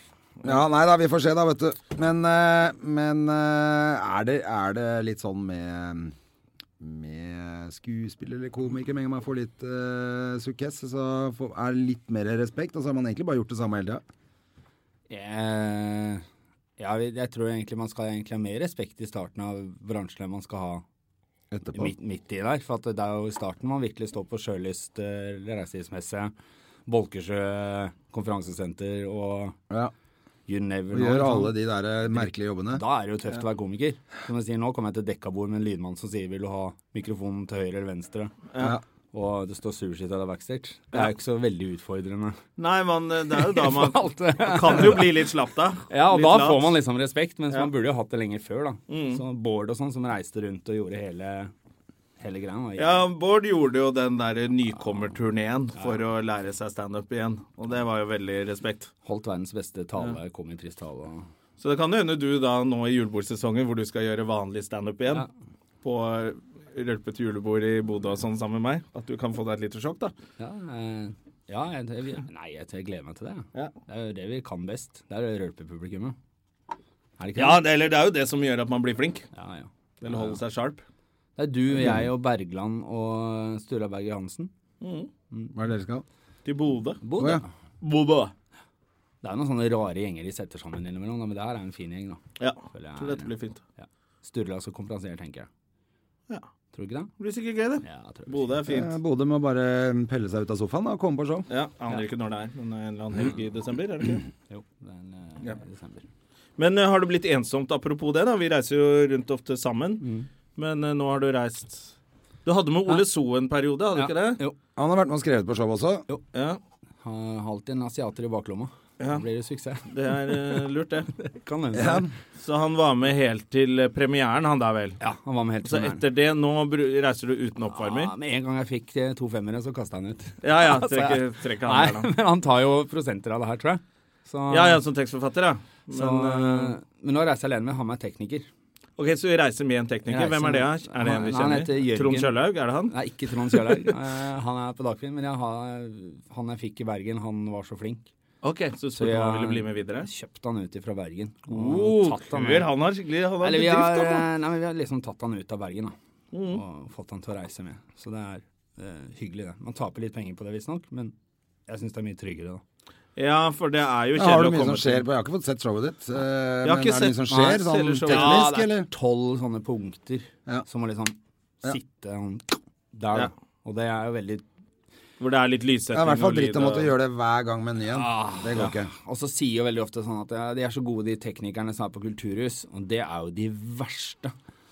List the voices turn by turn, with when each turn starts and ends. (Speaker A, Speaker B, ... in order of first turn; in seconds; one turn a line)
Speaker A: 0.4-6.2
Speaker A: 6.8-14.0
Speaker B: 15.1-16.2
Speaker B: 16.8-20.8
Speaker A: 21.5-21.9
Speaker B: 21.7-26.3
Speaker B: 26.9-29.6
Speaker B: 30.5-31.6
Speaker A: 30.9-32.8
Speaker B: 32.1-38.3
Speaker B: 39.1-42.4
Speaker C: 42.6-46.8
Speaker B: 43.4-45.1
Speaker B: 45.9-51.5
Speaker C: 48.9-49.2
Speaker B: 52.2-53.1
Speaker C: 52.8-58.9
Speaker B: 59.1-61.3
Speaker C: 61.6-65.3
Speaker C: 65.8-70.1
Speaker B: 70.4-76.2
Speaker B: 77.2-77.6
Speaker C: 77.4-79.3
Speaker B: 79.3-80.4
Speaker C: 80.0-80.8
Speaker B: 81.4-84.5
Speaker C: 84.8-85.1
Speaker A: 85.5-86.0
Speaker C: 86.5-87.0
Speaker B: 87.0-87.5
Speaker A: 87.2-87.4
Speaker C: 87.8-88.3
Speaker B: 89.2-95.5
Speaker C: 92.4-93.6
Speaker B: 96.7-97.1
Speaker C: 97.2-98.9
Speaker B: 97.8-98.6
Speaker A: 98.7-101.5
Speaker C: 101.5-104.2
Speaker B: 104.5-106.0
Speaker C: 106.6-110.0
Speaker B: 110.0-110.3
Speaker C: 110.6-111.9
Speaker C: 112.5-114.4
Speaker B: 114.0-114.6
Speaker A: 114.8-116.1
Speaker C: 116.3-116.6
Speaker B: 117.0-119.8
Speaker C: 119.8-121.1
Speaker B: 121.2-122.1
Speaker A: 121.7-122.1
Speaker C: 122.4-125.0
Speaker B: 125.0-126.0
Speaker C: 125.7-128.1
Speaker B: 127.7-134.8
Speaker C: 130.4-132.1
Speaker C: 134.5-136.8
Speaker B: 135.9-138.5
Speaker C: 139.0-142.9
Speaker B: 140.1-142.3
Speaker B: 142.9-148.1
Speaker C: 148.4-150.1
Speaker B: 149.0-152.7
Speaker C: 151.5-154.3
Speaker B: 153.4-155.9
Speaker C: 156.3-156.6
Speaker B: 156.5-161.1
Speaker B: 161.7-162.6
Speaker C: 163.2-165.1
Speaker A: 164.2-168.9
Speaker C: 166.6-168.5
Speaker B: 167.3-174.4
Speaker C: 175.2-176.9
Speaker A: 175.9-178.9
Speaker B: 177.9-184.3